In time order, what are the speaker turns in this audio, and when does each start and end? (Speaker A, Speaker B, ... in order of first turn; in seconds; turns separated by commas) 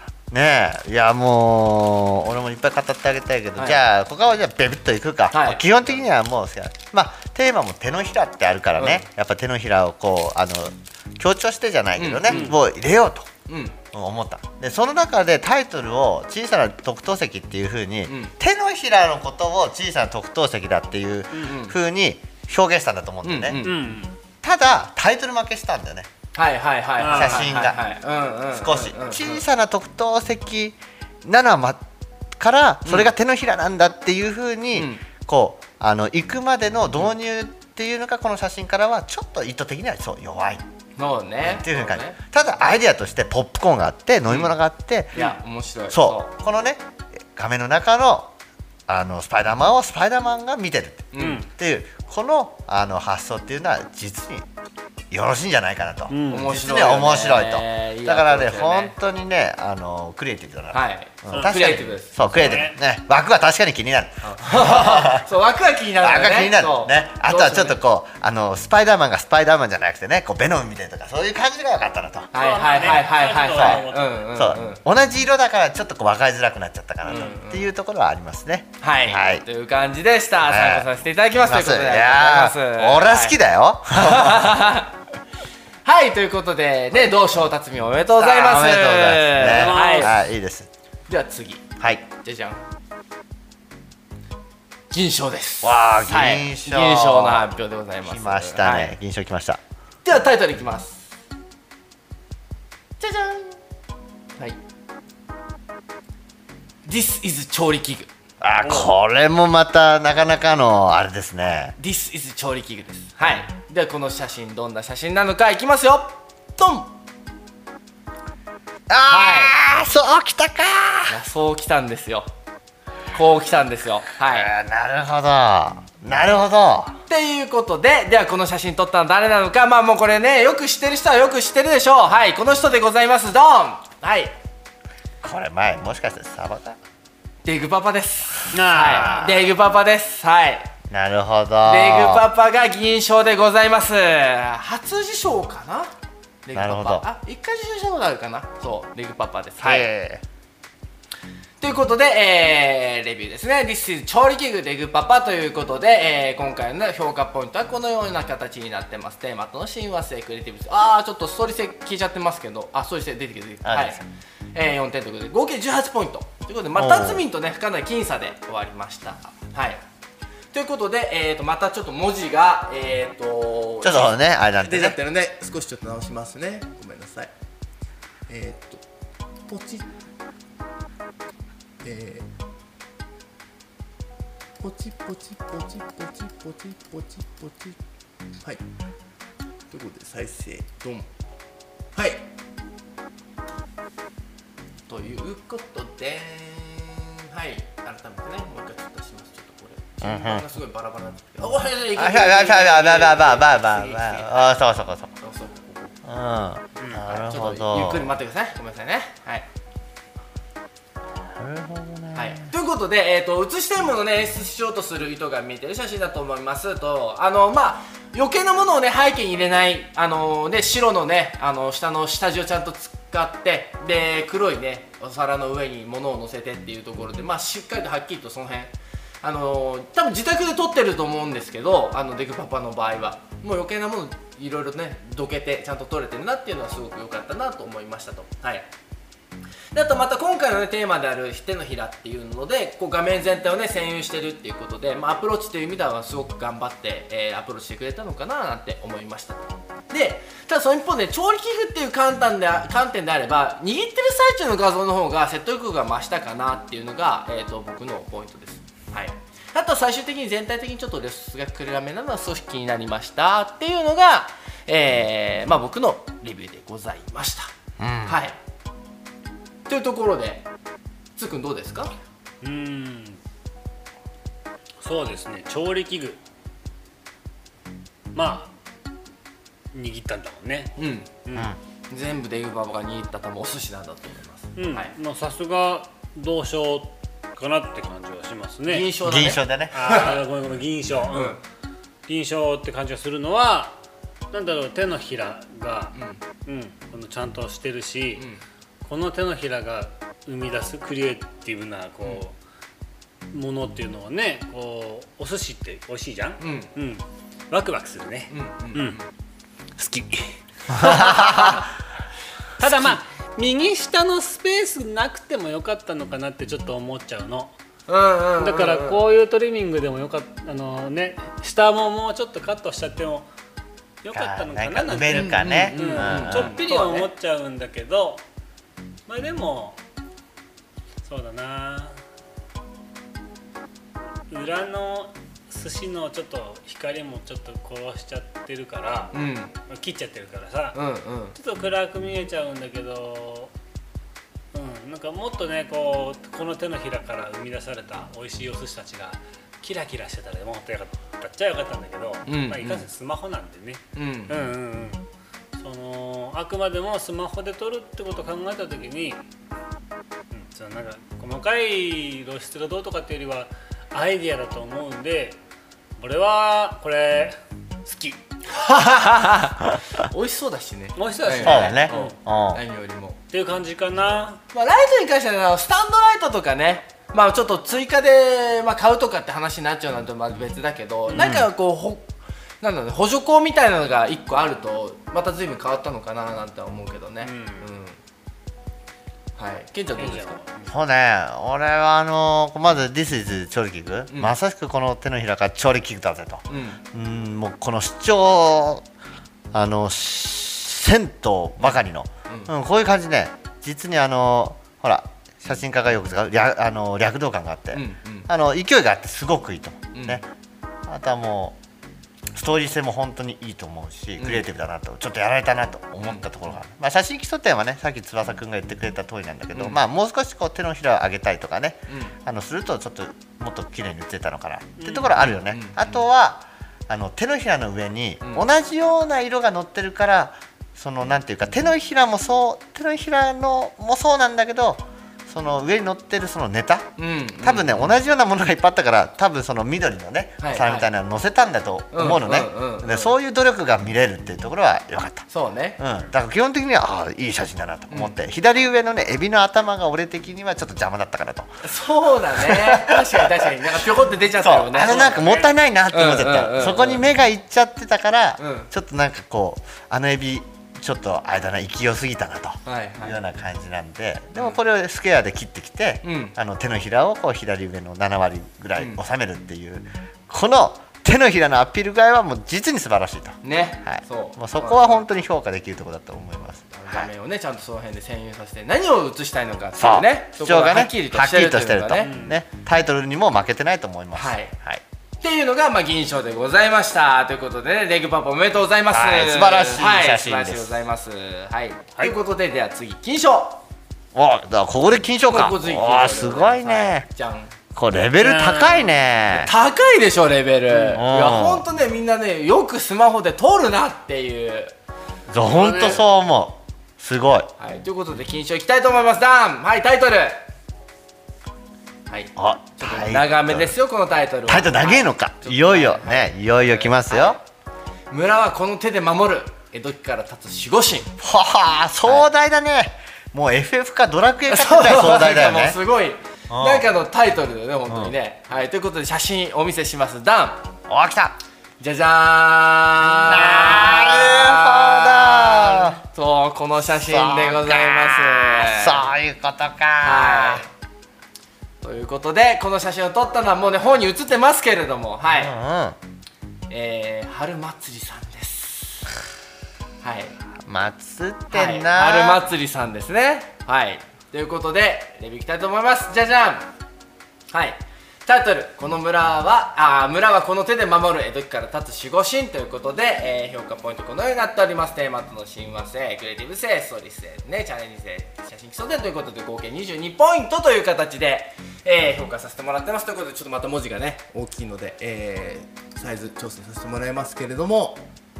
Speaker A: 0.3-13.3, Speaker B: 5.3-5.7, Speaker B: 8.8-9.1, Speaker B: 11.9-12.6, Speaker C: 12.3-12.6, Speaker B: 13.5-13.8, Speaker A: 13.9-23.6, Speaker B: 18.1-18.3, Speaker B: 21.4-21.8, Speaker B: 23.2-23.9, Speaker C: 23.6-24.1, Speaker A: 24.4-26.1, Speaker B: 26.3-29.4, Speaker C: 27.0-27.5, Speaker A: 27.1-27.8, Speaker A: 28.5-31.8, Speaker A: 32.4-40.6, Speaker B: 32.8-33.1, Speaker B: 34.7-35.0, Speaker B: 41.0-42.2, Speaker A: 41.4-45.1, Speaker B: 44.3-44.5, Speaker B: 45.1-46.3, Speaker A: 45.9-46.8, Speaker A: 47.3-48.3, Speaker A: 48.9-54.5, Speaker B: 51.1-51.4, Speaker C: 51.2-51.5, Speaker A: 55.1-65.2, Speaker C: 56.1-56.5, Speaker B: 56.3-58.9, Speaker B: 60.7-62.1, Speaker C: 61.3-61.8, Speaker C: 62.3-62.8, Speaker B: 64.2-67.8, Speaker A: 66.0-73.0, Speaker B: 72.3-74.8, Speaker C: 72.3-74.2, Speaker A: 73.5-73.8, Speaker A: 74.3-79.4, Speaker B: 77.0-77.7, Speaker B: 78.8-83.4, Speaker A: 80.4-80.9, Speaker A: 81.4-84.6, Speaker B: 83.9-84.9, Speaker B: 85.8-90.1, Speaker A: 88.1-90.7, Speaker C: 89.4-90.1, Speaker B: 91.1-92.6, Speaker B: 94.9-99.0, Speaker A: 95.6-97.5, Speaker A: 98.0-99.6, Speaker B: 100.0-101.1, Speaker B: 103.0-103.6, Speaker B: 106.8-108.1, Speaker A: 108.4-111.8, Speaker B: 111.8-116.9, Speaker A: 118.9-121.2, Speaker B: 119.1-119.5, Speaker B: 121.1-122.3, Speaker B: 123.1-124.5, Speaker A: 124.2-127.0, Speaker B: 127.1-134.3, Speaker A: 135.2-136.8, Speaker B: 137.4-140.7, Speaker C: 138.5-139.2, Speaker A: 138.7-139.4, Speaker A: 140.9-142.3, Speaker B: 141.6-145.9, Speaker B: 146.4-149.9, Speaker A: 146.5-147.0, Speaker A: 149.6-150.2, Speaker B: 151.6-169.8, Speaker A: 163.6-164.0, Speaker A: 166.7-167.2, Speaker B: 170.5-177.3, Speaker A: 173.8-174.9, Speaker B: 178.3-178.8, Speaker B: 179.5-179.9, Speaker B: 181.8-182.3, Speaker B: 184.6-187.8, Speaker B: 189.7-191.1, Speaker B: 191.9-192.2, Speaker B: 194.9-204.6, Speaker A: 200.0-200.4, Speaker A: 201.9-205.1, Speaker B: 205.2-206.0, Speaker A: 206.0-208.1, Speaker B: 207.0-209.4, Speaker A: 211.3-212.5, Speaker B: 212.1-238.7, Speaker B: 239.7-267.5, Speaker A: 267.8-268.2, Speaker B: 268.1-268.4, Speaker B: 269.7-270.4, Speaker B: 271.1-271.9, Speaker C: 272.4-273.2, Speaker C: 274.8-276.2, Speaker C: 278.1-278.5, Speaker C: 279.7-280.7, Speaker B: 280.8-281.1, Speaker C: 281.2-281.5, Speaker B: 281.9-284.9, Speaker C: 284.6-288.9, Speaker B: 288.7-290.2, Speaker A: 289.0-290.0, Speaker C: 289.7-291.4, Speaker B: 291.1-291.4, Speaker C: 292.1-293.8, Speaker C: 294.3-298.2, Speaker B: 295.9-296.2, Speaker B: 298.1-298.4, Speaker C: 298.8-302.4, Speaker C: 303.3-309.0, Speaker B: 306.4-306.7, Speaker B: 308.3-309.1, Speaker C: 309.8-311.6, Speaker A: 310.8-311.4, Speaker B: 310.8-311.6, Speaker C: 312.6-317.5, Speaker B: 312.6-312.9, Speaker B: 317.9-319.0, Speaker C: 318.4-323.3, Speaker C: 324.0-328.2, Speaker A: 324.1-326.6, Speaker B: 325.1-327.1, Speaker C: 329.1-329.8, Speaker C: 331.0-332.0, Speaker C: 334.3-340.8, Speaker B: 339.1-339.5, Speaker B: 340.7-341.4, Speaker C: 341.4-343.5, Speaker C: 344.5-359.2, Speaker B: 352.2-352.9, Speaker B: 353.9-354.4, Speaker C: 360.3-365.4, Speaker C: 366.0-368.2, Speaker B: 368.5-373.2, Speaker C: 371.0-372.1, Speaker A: 371.4-372.6, Speaker C: 373.3-374.4, Speaker B: 374.5-382.1, Speaker C: 381.1-381.4, Speaker A: 381.1-381.5, Speaker B: 382.6-388.0, Speaker C: 387.2-387.7, Speaker B: 389.4-390.4, Speaker C: 390.0-390.7, Speaker A: 390.6-398.8, Speaker B: 394.1-394.3, Speaker B: 396.5-396.8, Speaker A: 399.5-410.2, Speaker B: 401.6-402.5, Speaker B: 407.7-408.3, Speaker B: 409.9-410.2, Speaker A: 410.9-411.6, Speaker A: 412.3-436.9, Speaker B: 414.2-414.4, Speaker B: 416.0-416.6, Speaker B: 419.5-419.8, Speaker B: 421.9-422.1, Speaker C: 424.8-425.1, Speaker B: 425.1-426.0, Speaker B: 428.2-428.5, Speaker B: 437.0-438.0, Speaker A: 437.4-445.3, Speaker B: 440.4-440.9, Speaker B: 441.9-443.1, Speaker B: 445.3-445.8, Speaker A: 445.8-451.5, Speaker B: 447.9-448.1, Speaker B: 451.6-457.1, Speaker A: 452.4-453.5, Speaker A: 454.4-477.1, Speaker C: 455.0-455.4, Speaker B: 458.4-458.7, Speaker B: 462.6-463.2, Speaker B: 466.0-466.3, Speaker B: 468.8-469.0, Speaker B: 473.4-475.0, Speaker B: 476.7-482.1, Speaker A: 479.8-484.8, Speaker C: 482.0-482.4, Speaker B: 484.1-484.5, Speaker B: 485.2-493.6, Speaker A: 488.9-490.8, Speaker A: 494.1-497.1, Speaker B: 495.3-497.5, Speaker A: 497.7-499.5, Speaker C: 498.2-498.9, Speaker B: 499.3-504.7, Speaker A: 500.9-501.6, Speaker A: 505.3-507.5, Speaker C: 505.4-506.0, Speaker B: 507.6-510.4, Speaker B: 512.1-517.4, Speaker A: 512.4-513.7, Speaker A: 514.5-517.4, Speaker B: 518.1-521.1, Speaker A: 521.2-525.8, Speaker B: 524.5-530.6, Speaker A: 526.5-526.9, Speaker A: 527.9-528.1, Speaker A: 530.9-531.4, Speaker B: 531.8-539.1, Speaker A: 533.2-536.0, Speaker A: 536.9-540.6, Speaker B: 540.0-540.7, Speaker B: 541.8-545.5, Speaker A: 545.2-546.0, Speaker B: 546.7-549.1, Speaker B: 550.0-550.3, Speaker A: 550.6-552.5, Speaker B: 551.5-556.7, Speaker B: 557.5-578.0